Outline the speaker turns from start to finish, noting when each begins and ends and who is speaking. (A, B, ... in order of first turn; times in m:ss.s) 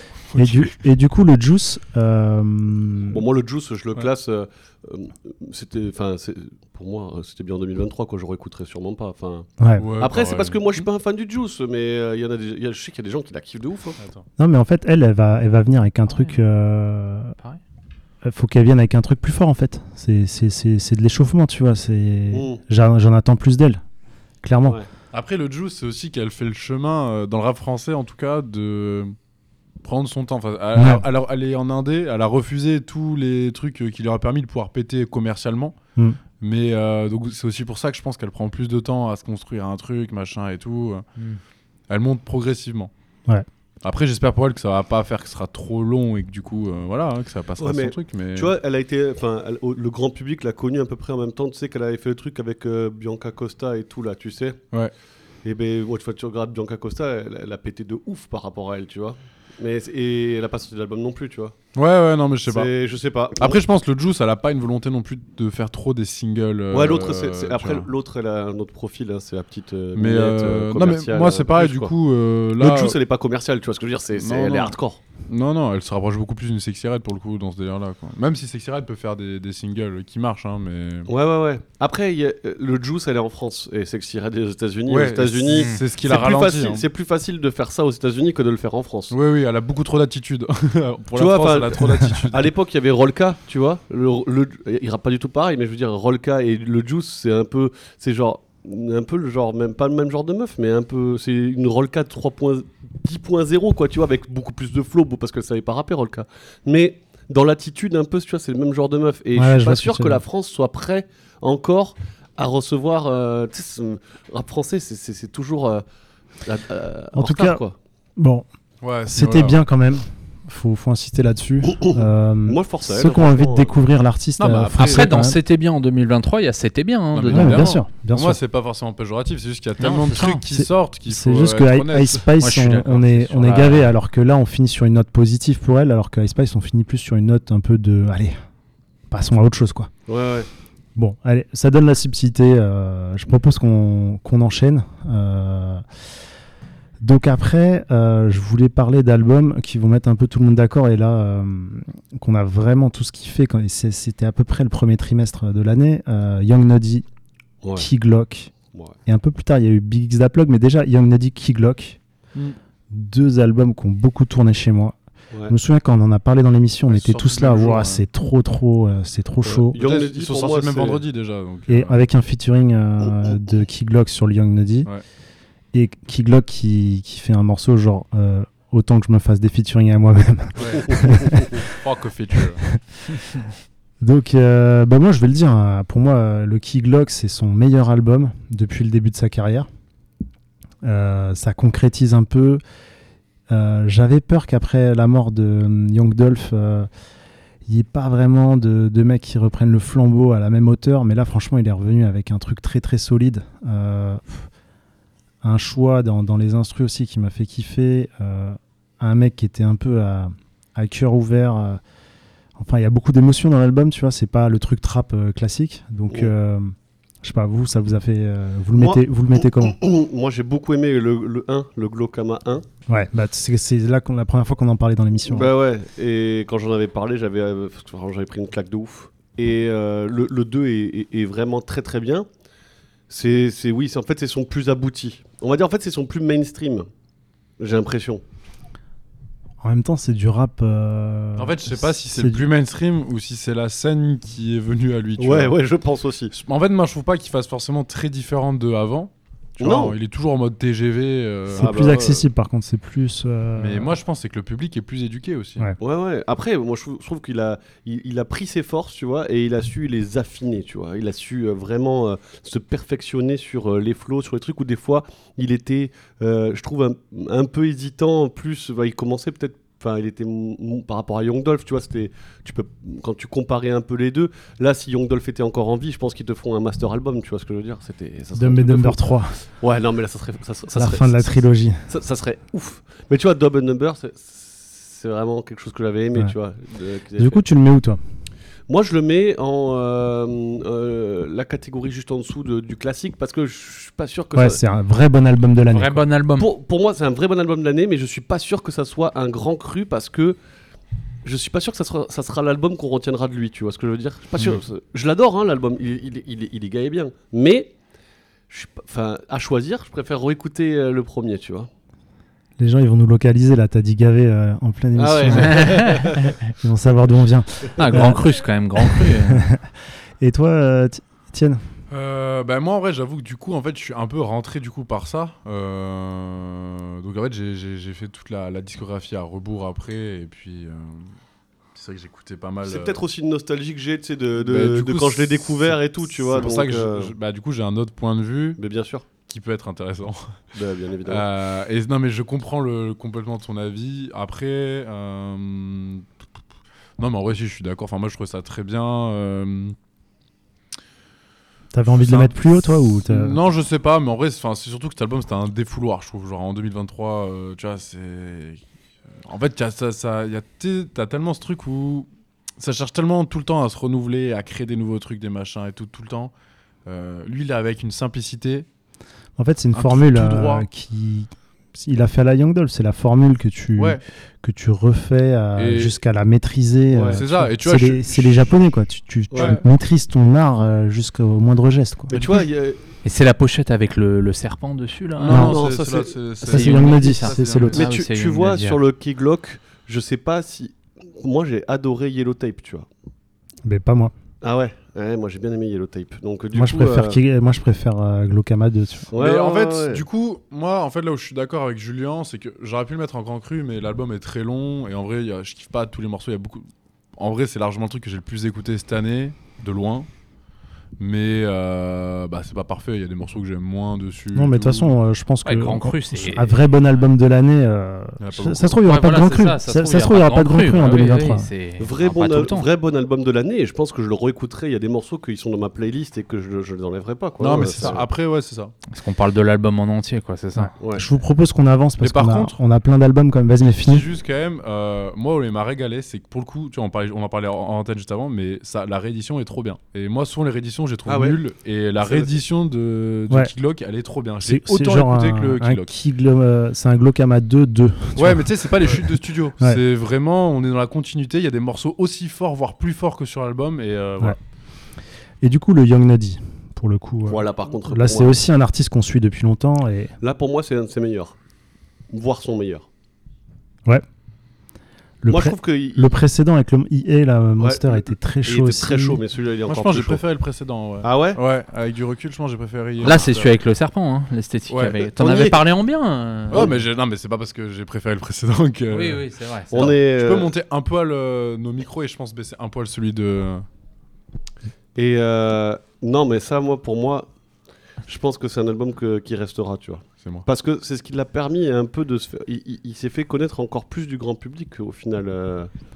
0:00.3-0:00.7 A
0:00.3-0:03.2 B
0:03.1-0:09.5 C
0:09.6-0:09.9 B
0:09.8-0:10.8 A
0:10.0-0:14.0 C
0:14.0-0:14.2 A
0:14.4-0:17.3 B
0:16.1-0:16.4 D
0:18.2-0:23.8 B
0:22.3-0:22.6 C
0:24.4-0:24.8 B
0:25.1-0:29.1 A
0:29.8-0:35.7 A
0:30.7-0:31.0 B
0:36.4-0:41.0 A
0:41.9-0:42.9 A
0:43.8-0:48.5 A
0:47.6-0:54.6 C
0:55.4-1:01.6 C
1:01.7-1:02.7 A
1:02.5-1:03.6 C
1:03.4-1:07.9 A
1:06.7-1:11.9 C
1:10.0-1:13.0 A
1:12.6-1:15.0 C
1:14.2-1:14.7 A
1:15.3-1:21.1 A
1:21.1-1:29.1 C
1:24.9-1:26.8 A
1:25.5-1:25.8 D
1:29.1-1:32.5 A
1:31.1-1:55.8 C
1:49.4-1:50.2 B
1:56.4-1:57.8 C
1:57.1-1:57.6 B
1:58.2-1:58.5 B
1:58.8-1:59.6 A
1:59.1-2:05.4 B
2:01.8-2:03.7 C
2:04.4-2:05.2 A
2:04.8-2:07.7 D
2:07.1-2:12.3 A
2:07.3-2:08.4 B
2:09.8-2:10.4 D
2:10.5-2:18.4 B
2:12.4-2:13.9 D
2:19.1-2:19.9 B
2:20.1-2:20.5 C
2:21.0-2:25.8 B
2:27.0-2:37.0 B
2:37.8-2:38.5 B
2:39.0-2:42.0 B
2:42.9-2:45.0 B
2:45.5-2:49.7 B
2:46.9-2:48.0 A
2:49.4-2:51.0 C
2:49.8-2:52.0 A
2:51.7-2:54.9 B
2:55.7-3:01.6 B
3:00.6-3:03.2 A
3:04.0-3:09.7 B
3:10.8-3:12.6 B
3:13.5-3:16.9 B
3:17.6-3:24.5 B
3:25.4-3:31.8 B
3:32.6-3:39.8 B
3:38.7-3:42.6 C
3:42.9-3:45.5 B
3:45.3-3:52.3 C
3:53.1-3:56.9 C
3:57.6-3:58.2 C
3:59.6-4:02.5 B
4:01.4-4:05.6 A
4:05.2-4:06.3 C
4:06.3-4:11.7 A
4:09.6-4:09.9 C
4:11.6-4:14.0 B
4:11.6-4:12.3 C
4:13.6-4:15.7 A
4:15.8-4:47.4 C
4:38.4-4:39.4 B
4:40.7-4:41.8 B
4:47.2-4:48.0 B
4:48.7-4:54.6 C
4:54.3-4:56.0 B
4:55.7-4:56.5 D
4:56.4-5:00.4 C
5:01.2-5:07.7 C
5:08.5-5:11.7 C
5:12.6-5:18.2 B
5:15.0-5:16.2 C
5:15.5-5:16.3 D
5:17.7-5:18.1 C
5:17.8-5:19.4 D
5:18.8-5:19.6 B
5:20.2-5:21.6 B
5:21.9-5:31.1 A
5:31.7-5:33.0 A
5:32.6-5:37.1 C
5:34.4-5:38.6 A
5:38.6-5:39.0 C
5:39.2-5:40.4 A
5:40.5-5:41.2 C
5:41.0-5:46.0 A
5:47.0-5:49.8 A
5:51.7-5:53.4 B
5:51.9-5:58.6 A
5:59.2-6:06.3 A
6:06.8-6:08.7 A
6:09.4-6:22.1 B
6:09.7-6:10.6 A
6:15.6-6:15.9 A
6:16.9-6:17.2 C
6:17.1-6:18.5 A
6:19.3-6:19.6 C
6:19.3-6:19.6 A
6:22.1-6:22.8 C
6:22.1-6:22.4 A
6:23.0-6:25.5 D
6:25.2-6:27.8 A
6:25.3-6:25.6 B
6:25.3-6:26.2 C
6:26.4-6:27.8 B
6:26.4-6:28.8 D
6:27.7-6:32.9 C
6:33.6-6:34.1 B
6:34.4-6:37.2 C
6:36.5-6:39.1 B
6:39.1-6:40.0 C
6:39.2-6:46.6 A
6:47.2-6:50.1 A
6:51.0-6:54.9 A
6:54.3-7:01.5 B
6:55.4-6:57.0 D
6:58.2-6:58.8 A
6:58.8-7:02.7 D
7:01.8-7:08.1 C
7:07.4-7:08.7 A
7:07.6-7:08.0 B
7:08.9-7:10.7 D
7:10.5-7:14.1 B
7:12.0-7:12.5 A
7:13.8-7:25.9 A
7:21.1-7:21.4 C
7:22.0-7:22.4 C
7:24.4-7:29.8 B
7:28.2-7:34.4 A
7:35.4-7:40.1 B
7:37.2-7:38.4 C
7:40.2-7:41.3 C
7:42.1-7:42.9 C
7:45.2-7:49.2 B
7:45.3-7:46.1 C
7:47.6-7:50.2 C
7:49.7-7:53.6 A
7:51.0-7:51.4 C
7:53.0-7:56.7 D
7:54.7-7:55.0 A
7:55.1-7:55.6 C
7:56.5-8:03.6 A
7:58.9-7:59.9 D
7:59.7-8:00.5 C
8:04.9-8:07.3 C
8:08.0-8:15.7 C